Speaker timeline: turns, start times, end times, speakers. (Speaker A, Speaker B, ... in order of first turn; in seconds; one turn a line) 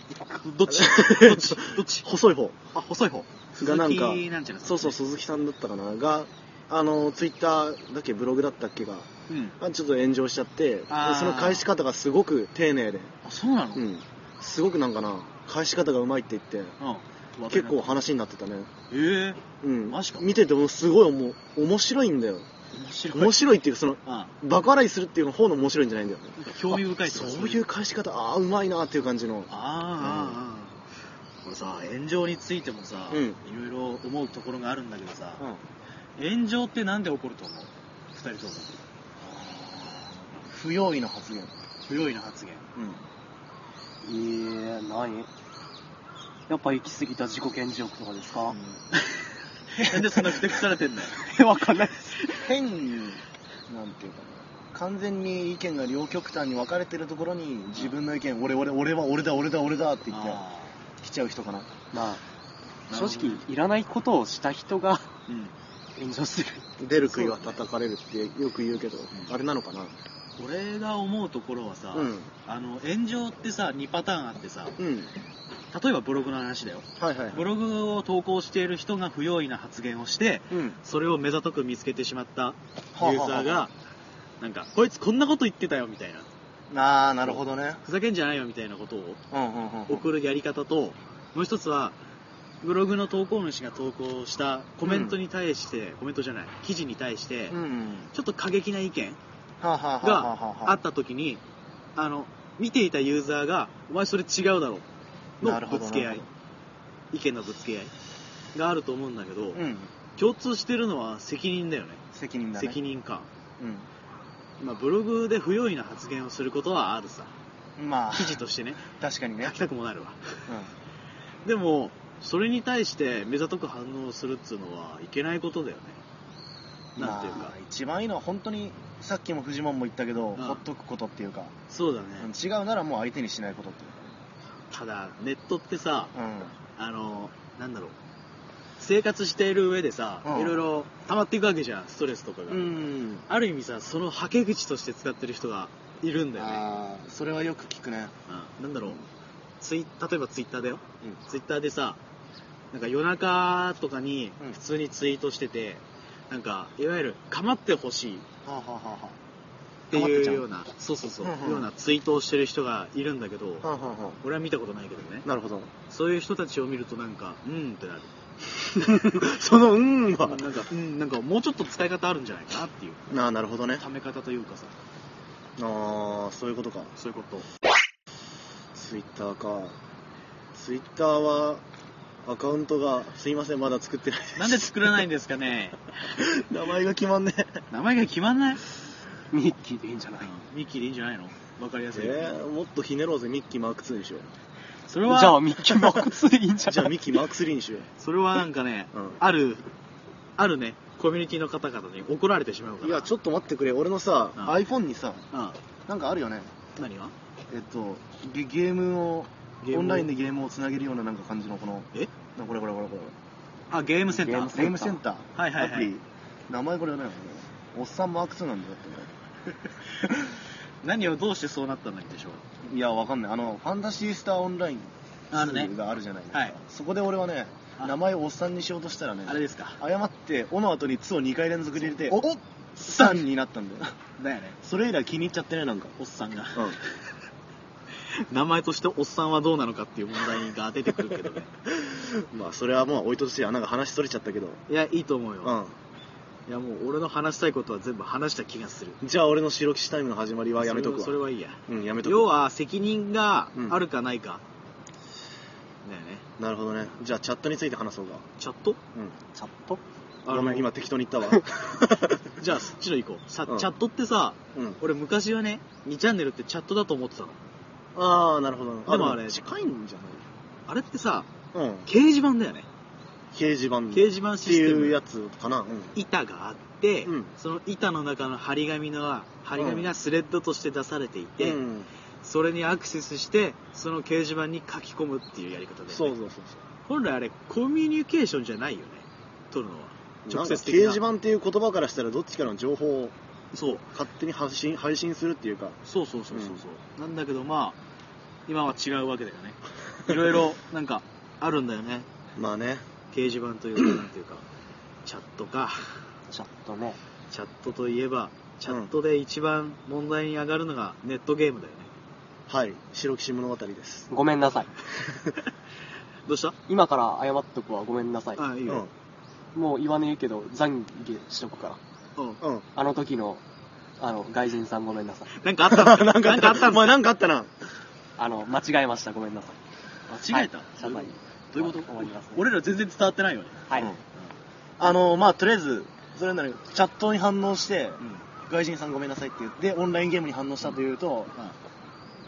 Speaker A: 0.1-2.1
Speaker B: 0.7-2.6
Speaker A: 2.7-5.0
Speaker B: 3.6-13.1
Speaker A: 9.3-9.6
Speaker A: 10.9-11.7
Speaker A: 13.2-13.9
Speaker B: 13.8-16.8
Speaker A: 16.8-18.0
Speaker B: 17.5-18.7
Speaker A: 18.9-20.4
Speaker B: 19.6-22.5
Speaker A: 22.7-23.4
Speaker B: 23.1-30.4
Speaker A: 24.1-24.3
Speaker A: 26.4-27.6
Speaker A: 29.5-30.8
Speaker A: 31.4-35.4
Speaker B: 33.1-33.4
Speaker A: 36.2-38.8
Speaker B: 39.2-41.5
Speaker A: 41.9-42.7
Speaker B: 42.8-43.0
Speaker C: 44.0-45.3
Speaker C: 46.5-48.6
Speaker A: 49.8-51.2
Speaker C: 51.2-52.5
Speaker B: 52.4-60.4
Speaker A: 60.1-60.8
Speaker B: 61.0-61.7
Speaker C: 61.9-62.2
Speaker A: 62.9-63.4
Speaker C: 62.9-65.1
Speaker A: 65.3-65.5
Speaker C: 66.0-67.5
Speaker B: 66.8-69.9
Speaker A: 70.4-74.8
Speaker B: 71.9-72.3
Speaker B: 74.8-75.1
Speaker A: 75.7-83.7
Speaker B: 77.0-77.5
Speaker B: 80.5-80.8
Speaker B: 83.0-83.7
Speaker A: 84.4-86.3
Speaker B: 86.7-87.8
Speaker A: 87.2-89.2
Speaker B: 89.3-90.1
Speaker A: 89.9-92.0
Speaker A: 92.6-97.6
Speaker B: 94.8-95.2
Speaker B: 97.5-98.1
Speaker A: 98.1-99.2
Speaker B: 99.6-100.8
Speaker A: 100.0-101.4
Speaker A: 102.0-104.9
Speaker A: 105.4-106.3
Speaker B: 105.4-106.3
Speaker A: 107.1-107.9
Speaker A: 108.5-109.6
Speaker B: 109.5-109.9
Speaker A: 110.2-112.0
Speaker B: 112.1-112.8
Speaker A: 112.6-113.3
Speaker B: 113.6-113.9
Speaker A: 114.6-117.3
Speaker B: 117.8-119.7
Speaker A: 118.1-118.9
Speaker A: 119.4-120.5
Speaker A: 121.5-126.0
Speaker A: 127.0-127.5
Speaker B: 127.0-131.6
Speaker A: 130.4-130.6
Speaker A: 131.7-132.3
Speaker B: 132.2-134.2
Speaker A: 134.7-136.1
Speaker B: 136.1-136.6
Speaker A: 136.8-138.0
Speaker A: 138.8-146.7
Speaker B: 140.2-140.6
Speaker B: 142.5-143.3
Speaker B: 146.4-148.1
Speaker A: 148.3-149.0
Speaker A: 149.6-152.0
Speaker A: 152.7-158.3
Speaker B: 158.4-159.2
Speaker A: 159.9-163.7
Speaker B: 159.9-160.4
Speaker B: 161.2-161.7
Speaker B: 163.6-164.2
Speaker A: 164.2-165.3
Speaker B: 165.2-165.7
Speaker A: 165.9-168.1
Speaker B: 168.6-170.5
Speaker A: 170.2-173.1
Speaker B: 173.1-173.8
Speaker A: 173.8-174.7
Speaker B: 175.6-176.9
Speaker A: 177.0-177.5
Speaker B: 178.7-179.8
Speaker B: 180.5-181.6
Speaker B: 182.2-184.7
Speaker A: 184.4-185.9
Speaker B: 186.1-187.6
Speaker A: 187.7-188.6
Speaker C: 189.3-190.3
Speaker A: 190.2-192.4
Speaker B: 191.9-194.3
Speaker A: 194.9-195.4
Speaker C: 195.1-197.2
Speaker B: 195.7-196.1
Speaker B: 196.7-197.9
Speaker A: 198.0-199.7
Speaker A: 200.4-203.1
Speaker B: 202.8-205.2
Speaker A: 205.3-205.6
Speaker B: 205.9-206.5
Speaker A: 206.8-207.1
Speaker B: 207.5-213.2
Speaker A: 209.6-210.1
Speaker A: 213.7-214.7
Speaker C: 214.1-215.0
Speaker B: 214.5-219.1
Speaker A: 215.4-215.9
Speaker A: 220.8-222.4
Speaker B: 222.7-232.2
Speaker A: 225.3-225.7
Speaker A: 229.3-229.8
Speaker A: 232.1-233.2
Speaker B: 232.8-234.0
Speaker A: 234.2-234.6
Speaker B: 234.6-235.9
Speaker A: 236.0-237.0
Speaker A: 238.2-241.5
Speaker B: 241.7-244.6
Speaker A: 244.7-245.6
Speaker B: 245.4-245.7
Speaker A: 246.5-249.0
Speaker B: 249.0-252.3
Speaker A: 250.6-254.4
Speaker A: 255.8-256.2
Speaker B: 256.4-258.3
Speaker A: 258.4-258.8
Speaker C: 259.4-259.8
Speaker A: 260.2-260.7
Speaker B: 260.3-262.4
Speaker A: 262.4-267.4
Speaker B: 264.5-264.8
Speaker B: 267.9-270.3
Speaker A: 268.9-269.5
Speaker A: 270.7-271.3
Speaker B: 271.5-271.9
Speaker A: 271.9-272.7
Speaker B: 273.3-276.0
Speaker A: 273.9-275.0
Speaker A: 275.9-281.6
Speaker B: 277.1-277.3
Speaker B: 279.6-279.9
Speaker B: 281.4-281.9
Speaker A: 282.2-286.2
Speaker B: 285.9-286.6
Speaker A: 286.9-291.0
Speaker B: 290.3-293.1
Speaker A: 293.5-293.9
Speaker B: 293.9-295.8
Speaker A: 295.9-297.8
Speaker B: 296.3-296.6
Speaker A: 298.5-302.1
Speaker B: 302.4-302.9
Speaker A: 303.1-304.4
Speaker A: 305.1-306.0
Speaker C: 306.3-307.0
Speaker A: 307.3-311.9
Speaker B: 312.5-314.1
Speaker C: 314.1-314.7
Speaker A: 316.3-316.6
Speaker C: 316.7-318.4
Speaker A: 318.4-318.9
Speaker C: 319.6-321.8
Speaker B: 322.4-322.7
Speaker C: 322.8-323.4
Speaker C: 324.0-325.3
Speaker A: 325.3-326.9
Speaker B: 325.7-327.5
Speaker C: 328.2-329.6
Speaker A: 330.1-334.3
Speaker C: 330.2-332.4
Speaker B: 334.8-341.3